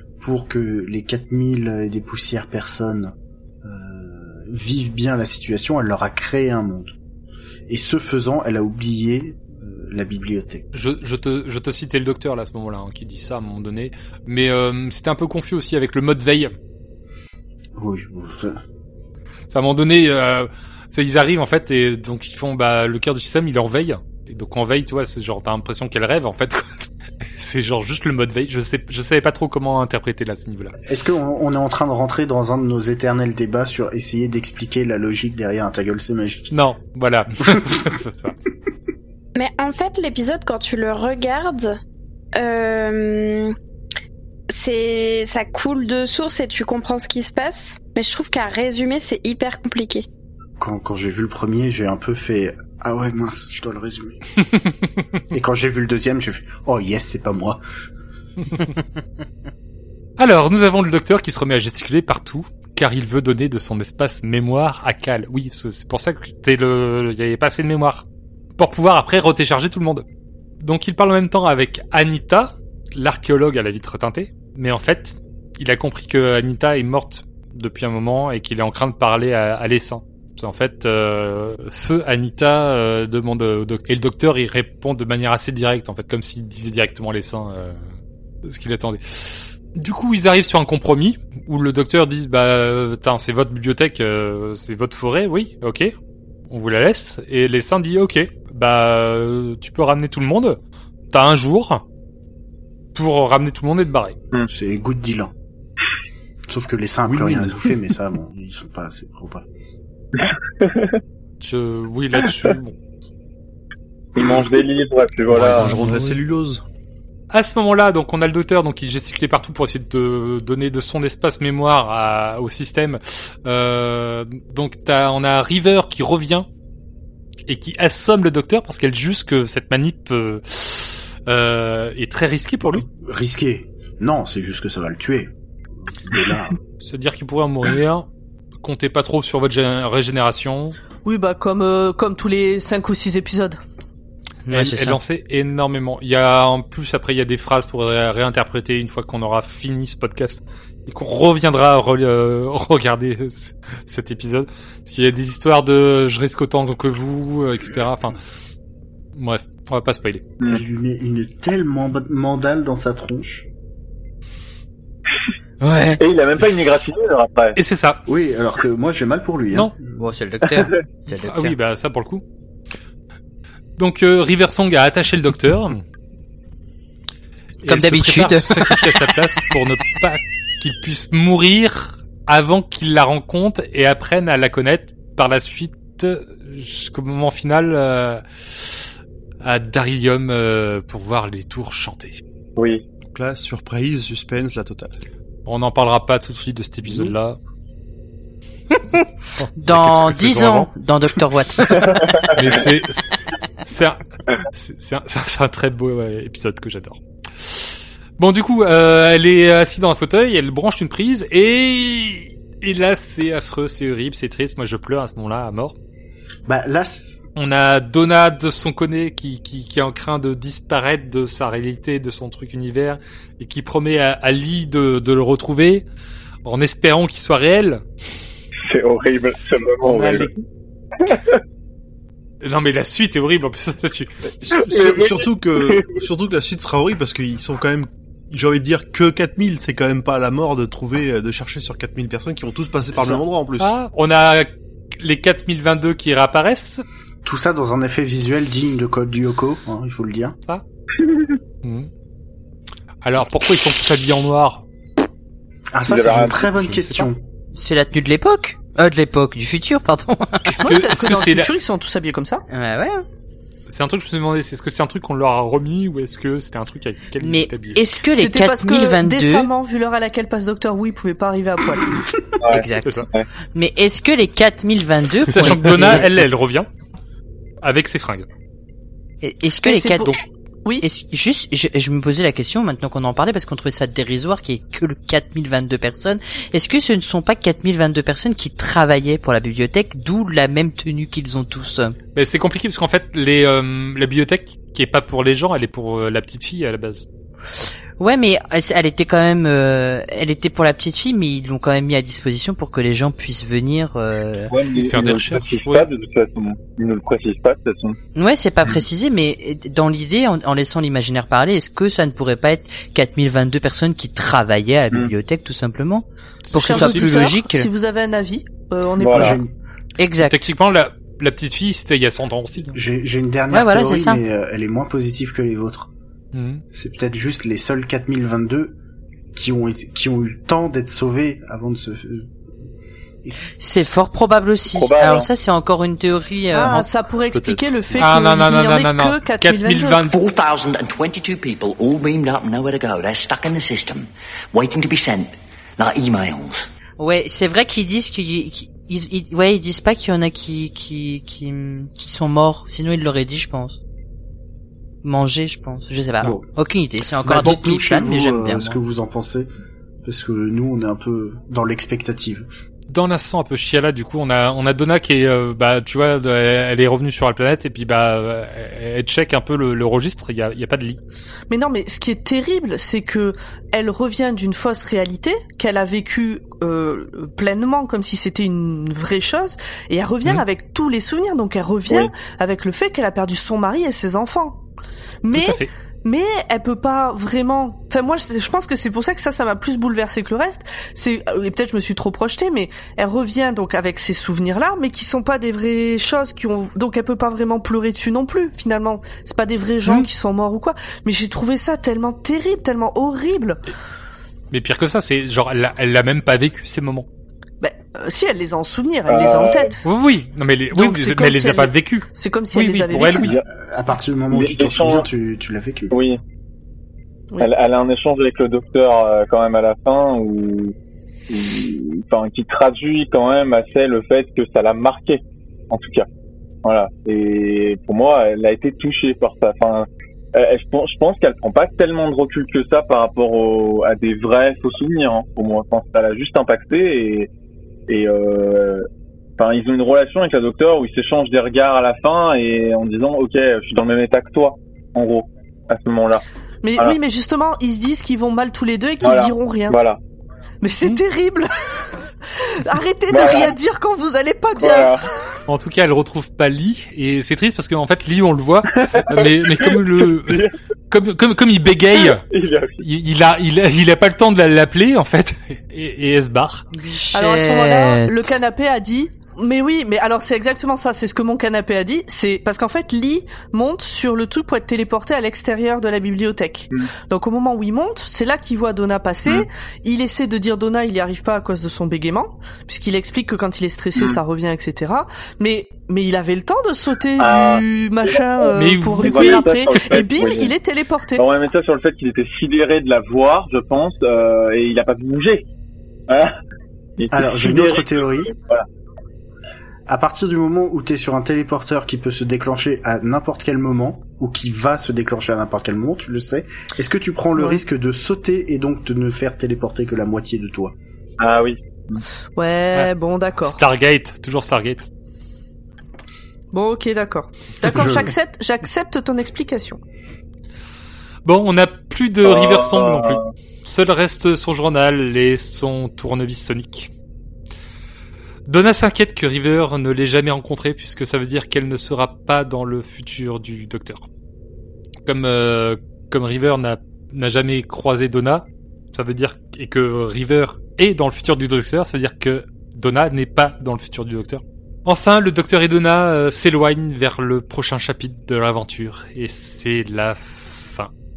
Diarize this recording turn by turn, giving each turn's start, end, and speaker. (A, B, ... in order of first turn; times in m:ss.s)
0:00.2-0:06.9 A
0:07.7-0:10.6 A
0:10.7-0:16.5 B
0:17.8-0:18.6 A
0:19.5-0:30.7 B
0:30.9-0:36.5 A
0:36.5-0:38.3 B
0:39.4-0:41.8 C
0:42.4-0:43.5 C
0:44.5-0:50.0 C
0:50.6-0:54.2 A
0:55.3-0:57.6 A
1:00.2-1:08.0 B
1:08.6-1:10.0 B
1:10.6-1:27.8 B
1:28.4-1:35.9 B
1:36.5-1:40.6 B
1:41.1-1:41.8 B
1:42.9-1:44.2 B
1:44.5-1:45.3 A
1:46.5-1:49.4 A
1:47.1-1:47.7 D
1:50.2-1:51.0 E
1:51.4-1:52.8 B
1:54.1-1:55.8 E
1:55.3-1:56.6 D
1:57.3-2:06.5 B
2:07.5-2:12.8 B
2:12.6-2:15.3 A
2:16.0-2:16.6 A
2:16.8-2:18.0 B
2:18.6-2:20.8 B
2:21.0-2:23.6 F
2:24.5-2:25.0 G
2:24.5-2:38.2 B
2:39.2-2:40.2 B
2:40.4-2:43.5 A
2:45.6-2:46.0 B
2:46.0-2:47.6 E
2:47.6-2:48.0 B
2:48.1-2:50.1 A
2:50.0-2:51.5 G
2:51.1-2:52.2 B
2:53.8-2:55.8 B
2:57.6-3:08.9 B
2:57.7-2:58.9 G
3:09.4-3:12.2 B
3:12.6-3:12.8 E
3:13.1-3:14.9 D
3:15.4-3:17.4 B
3:19.4-3:20.7 B
3:19.6-3:22.0 G
3:21.9-3:22.3 E
3:22.2-3:23.1 B
3:23.6-3:35.7 B
3:36.4-3:37.2 A
3:37.4-3:45.8 B
3:46.4-3:47.8 B
3:48.6-3:50.4 E
3:49.8-3:50.3 B
3:51.0-3:51.4 E
3:52.4-3:54.1 B
3:54.5-4:03.7 D
3:54.6-3:55.9 E
4:02.9-4:03.2 A
4:03.6-4:06.8 B
4:07.2-4:10.4 A
4:11.0-4:11.3 E
4:13.0-4:14.6 B
4:15.7-4:17.2 A
4:15.8-4:16.5 E
4:16.6-4:17.1 B
4:17.5-4:20.5 G
4:20.5-4:21.5 B
4:20.6-4:22.4 F
4:22.5-4:23.0 G
4:23.7-4:27.8 B
4:27.2-4:29.5 G
4:28.1-4:32.0 F
4:32.4-4:33.3 E
4:32.5-4:36.0 G
4:35.3-4:36.7 B
4:37.6-4:38.2 B
4:39.2-4:40.2 G
4:39.6-4:40.8 F
4:40.8-4:52.0 G
4:52.1-4:57.0 B
4:58.0-5:04.5 G
5:04.5-5:08.0 E
5:04.7-5:05.9 B
5:08.1-5:17.7 G
5:16.5-5:17.0 B
5:16.5-5:19.4 F
5:19.0-5:19.4 E
5:19.0-5:19.5 A
5:20.0-5:20.4 G
5:20.2-5:22.8 B
5:22.7-5:25.9 A
5:23.5-5:24.2 G
5:26.3-5:26.6 B
5:26.7-5:28.8 A
5:29.3-5:32.3 A
5:33.6-5:37.6 G
5:34.7-5:35.3 E
5:36.5-5:40.0 F
5:37.5-5:38.0 D
5:38.0-5:40.2 B
5:40.1-5:46.7 H
5:47.0-5:53.8 G
5:55.0-5:58.8 G
5:56.2-5:56.5 A
5:57.2-5:59.5 A
6:00.0-6:02.4 A
6:02.9-6:11.0 B
6:11.5-6:24.6 F
6:25.2-6:43.6 F
6:25.3-6:25.7 B
6:44.5-6:47.1 B
6:47.6-6:49.8 F
6:49.1-6:49.8 E
6:49.8-6:53.4 B
6:50.7-6:53.4 F
6:53.0-6:53.4 E
6:53.5-6:56.0 A
6:54.3-6:55.1 E
6:55.9-6:56.2 E
6:57.4-7:00.7 E
7:01.3-7:06.1 E
7:06.6-7:17.3 E
7:17.9-7:18.8 E
7:19.4-7:26.2 E
7:26.6-7:29.8 F
7:29.0-7:30.0 E
7:30.6-7:35.0 F
7:33.1-7:33.5 E
7:34.6-7:35.0 E
7:35.5-7:42.2 B
7:38.8-7:40.5 E
7:42.0-7:42.8 E
7:42.8-7:46.6 B
7:46.7-7:48.3 G
7:47.1-8:11.2 F
8:07.2-8:10.5 E
8:08.6-8:09.4 B
8:11.2-8:15.5 E
8:16.1-8:16.4 E
8:17.0-8:18.6 E
8:17.1-8:18.3 A
8:19.9-8:30.7 A
8:31.2-8:32.0 E
8:32.3-8:33.6 F
8:33.4-8:34.8 B
8:36.5-8:39.8 F
8:37.6-8:38.1 A
8:41.2-8:46.9 B
8:42.2-8:43.3 E
8:48.5-8:54.0 B
8:55.0-9:10.9 B